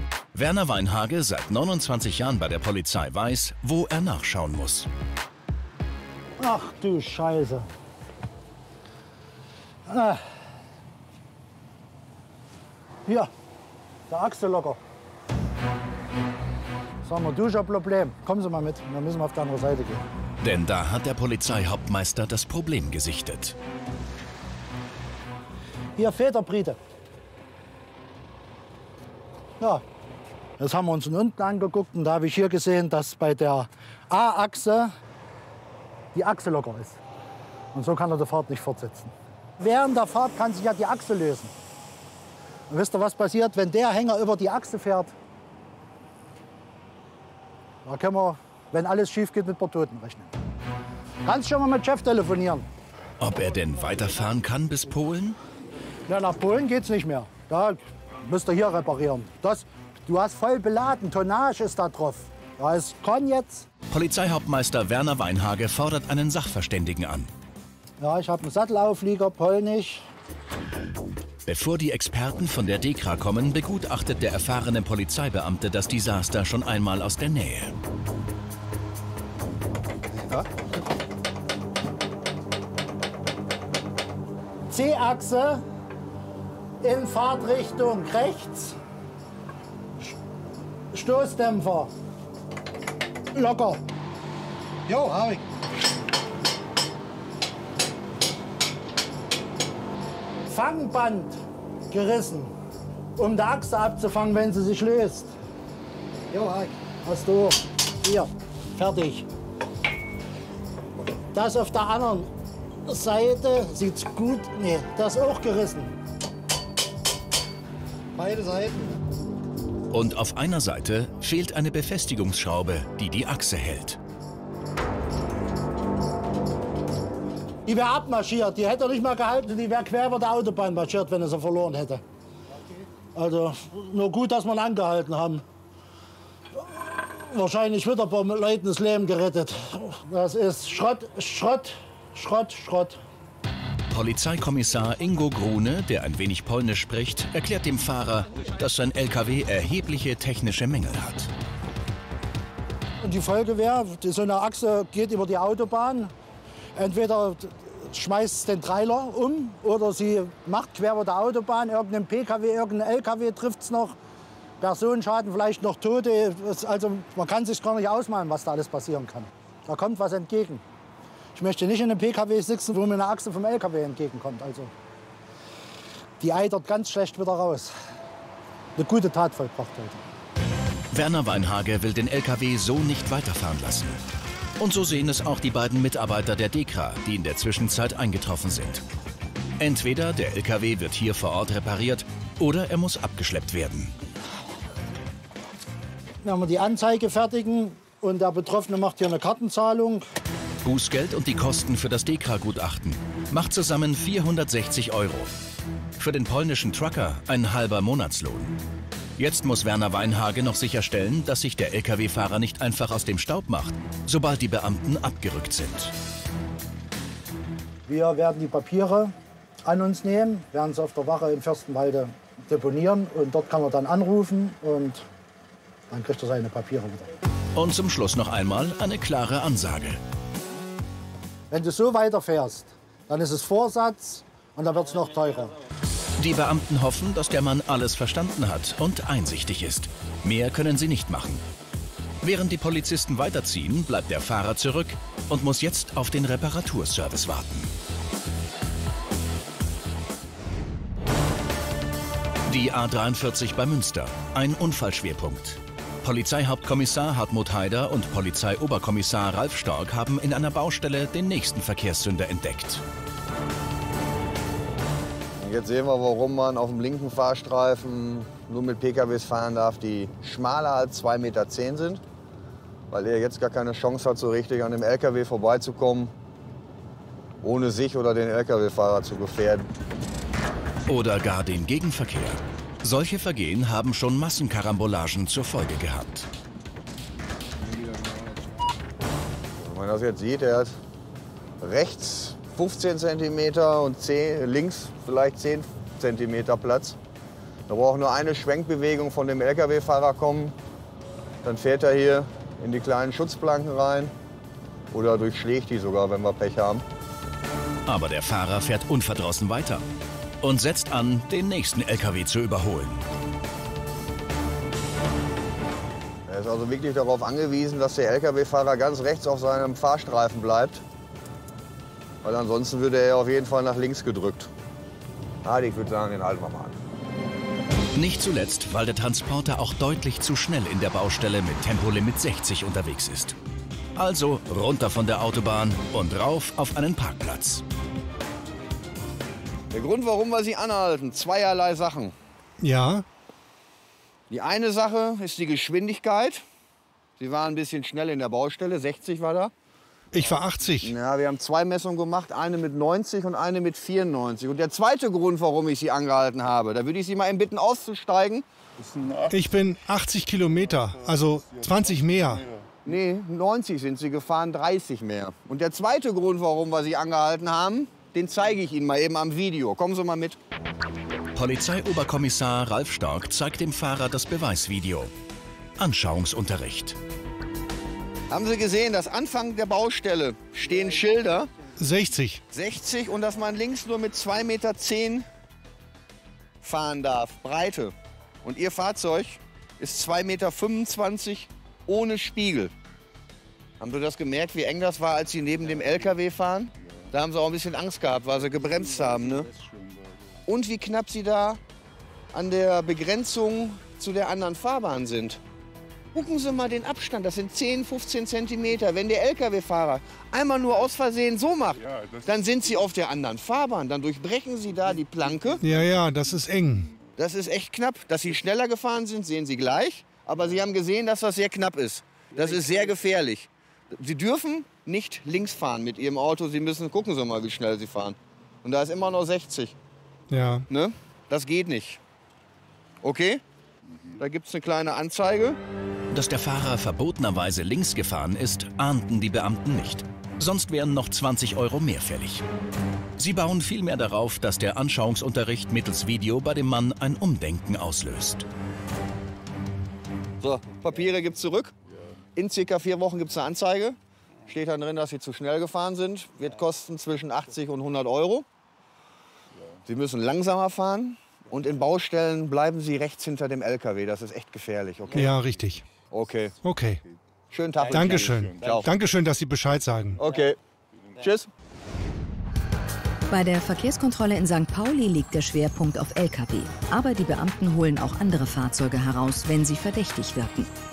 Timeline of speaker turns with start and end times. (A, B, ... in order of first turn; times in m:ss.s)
0:00.3-0:04.9 A
0:06.4-0:07.7 B
0:09.9-0:10.2 B
0:14.1-0:14.8 B
0:17.0-0:20.0 B
0:20.4-0:23.6 A
0:26.0-0:26.8 B
0:30.6-0:34.9 B
0:36.1-0:37.0 B
0:37.7-0:41.5 B
0:42.7-0:45.1 B
0:47.8-0:50.3 B
0:51.2-0:52.6 B
0:53.2-0:55.4 A
0:56.1-1:03.6 B
1:03.9-1:07.3 A
1:08.0-1:10.1 B
1:11.4-1:17.7 A
1:24.7-1:25.6 B
1:26.8-1:28.8 B
1:30.9-1:31.9 B
1:33.3-1:33.8 B
1:34.9-1:35.4 B
1:40.5-1:42.5 B
1:43.2-1:45.4 B
1:46.3-1:49.3 B
1:51.3-1:52.3 B
1:52.8-1:55.9 B
1:58.2-1:59.0 B
1:59.9-2:04.0 A
2:07.6-2:12.0 B
2:13.1-2:15.4 B
2:16.6-2:23.0 B
2:23.9-2:31.3 A
2:33.0-2:36.1 B
2:36.7-2:44.0 B
2:44.6-2:50.6 B
2:51.3-2:54.7 B
2:56.2-2:57.7 B
2:58.8-3:00.0 B
3:00.9-3:04.0 A
3:04.6-3:08.8 A
3:09.6-3:13.9 A
3:16.2-3:20.0 B
3:20.6-3:25.3 A
3:26.0-3:28.5 A
3:29.2-3:35.9 A
3:37.9-3:39.1 B
3:39.6-3:45.0 B
3:45.9-3:47.1 B
3:47.5-3:50.0 A
3:51.5-3:55.5 B
3:56.2-4:01.4 A
4:02.2-4:07.7 A
4:12.5-4:22.8 A
4:25.4-4:32.0 C
4:32.9-4:36.1 C
4:37.4-4:39.7 C
4:40.9-4:46.3 A
4:49.6-4:50.8 C
4:51.6-4:57.0 C
4:57.7-5:00.6 C
5:01.4-5:04.1 C
5:04.9-5:06.8 C
5:07.9-5:09.8 A
5:10.4-5:13.0 A
5:16.3-5:20.8 C
5:22.2-5:24.5 C
5:25.4-5:26.8 C
5:27.9-5:33.4 A
5:34.0-5:37.6 A
5:39.7-5:42.1 C
5:42.6-5:43.0 D
5:44.3-5:46.4 C
5:47.2-5:49.5 C
5:50.1-5:50.9 D
5:50.8-5:58.4 C
5:59.3-6:02.5 D
6:02.8-6:10.4 C
6:11.3-6:15.1 A
6:15.8-6:17.0 A
6:18.3-6:21.5 C
6:21.8-6:22.4 D
6:22.5-6:25.2 C
6:26.6-6:32.7 C
6:33.8-6:39.5 C
6:40.5-6:41.6 C
6:42.3-6:45.4 C
6:46.1-6:55.6 C
6:55.6-6:56.9 D
6:57.2-7:09.8 C
7:10.3-7:10.6 D
7:10.7-7:12.0 C
7:13.0-7:13.4 C
7:14.2-7:15.6 C
7:16.1-7:22.4 A
7:23.2-7:28.4 A
7:30.4-7:31.7 C
7:32.4-7:38.4 C
7:39.8-7:45.3 C
7:45.1-7:45.9 D
7:46.1-7:46.5 C
7:46.6-7:47.0 D
7:47.5-7:48.9 C
7:47.9-7:50.2 D
7:50.2-7:50.6 C
7:51.2-7:51.5 C
7:53.3-8:00.7 E